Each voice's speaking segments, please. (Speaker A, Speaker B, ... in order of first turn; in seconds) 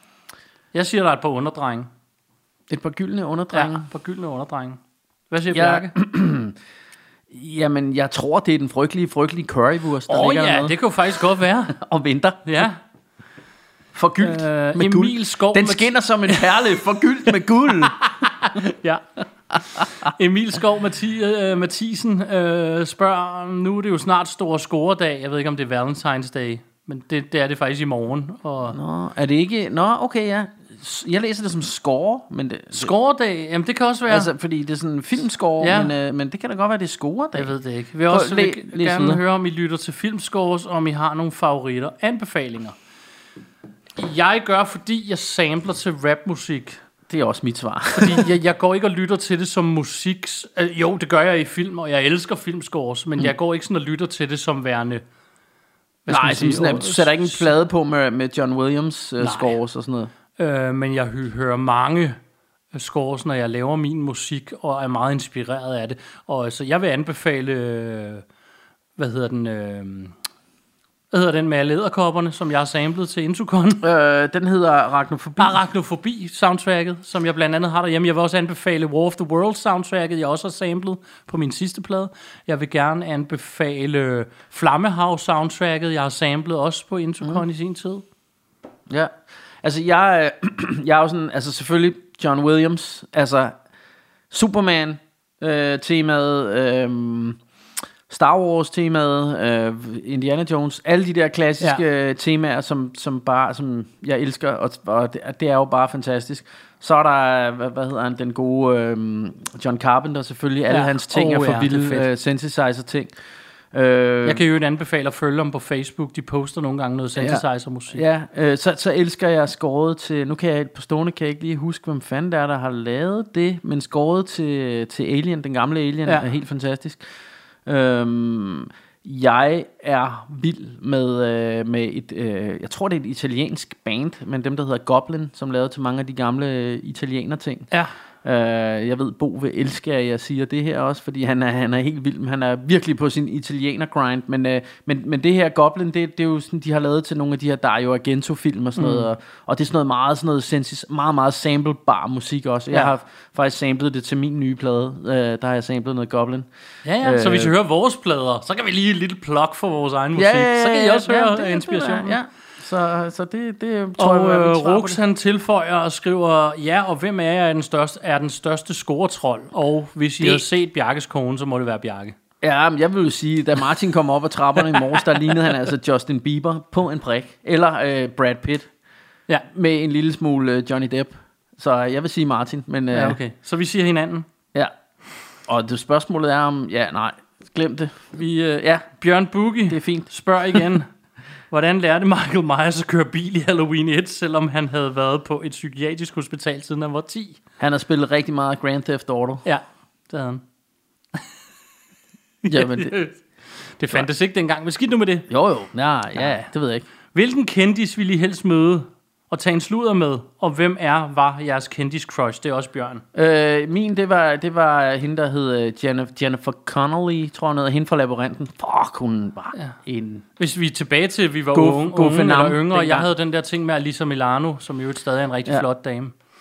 Speaker A: 0.7-1.9, 3.5-5.9, 10.1-11.8, 12.4-12.8, 14.2-16.6, 17.9-28.8, 32.8-34.3, 35.6-35.9, 37.4-42.8, 44.0-46.8, 47.9-55.0, 56.1-57.5, 59.2-59.6, 60.4-62.2, 62.7-68.2, 69.0-70.2, 71.1-73.8, 75.4-88.0, 110.7-112.1, 114.2-118.0, 148.8-149.1, 156.8-162.2, 164.0-172.2, 182.9-184.3, 188.9-190.9, 191.5-197.4, 199.4-200.4, 202.4-203.2, 203.8-205.3, 206.2-206.4, 207.1-213.0, 220.4-226.2
Speaker B: 2.7-3.9, 5.5-6.6, 7.3-10.8, 11.7-12.6, 13.9-18.0, 28.7-32.9, 34.1-37.5, 38.1-39.2, 47.1-48.3, 56.1-60.1, 73.8-75.6, 88.9-93.5, 94.3-97.4, 98.1-113.1, 113.7-114.4, 117.2-127.0, 127.7-137.7, 138.2-156.5, 157.0-157.5, 160.2-165.0, 170.2-170.5, 172.4-178.7, 179.5-183.2, 185.5-188.9, 189.7-190.6, 197.6-199.4, 202.5-202.9, 205.3-206.9, 213.2-220.2, 221.5-223.1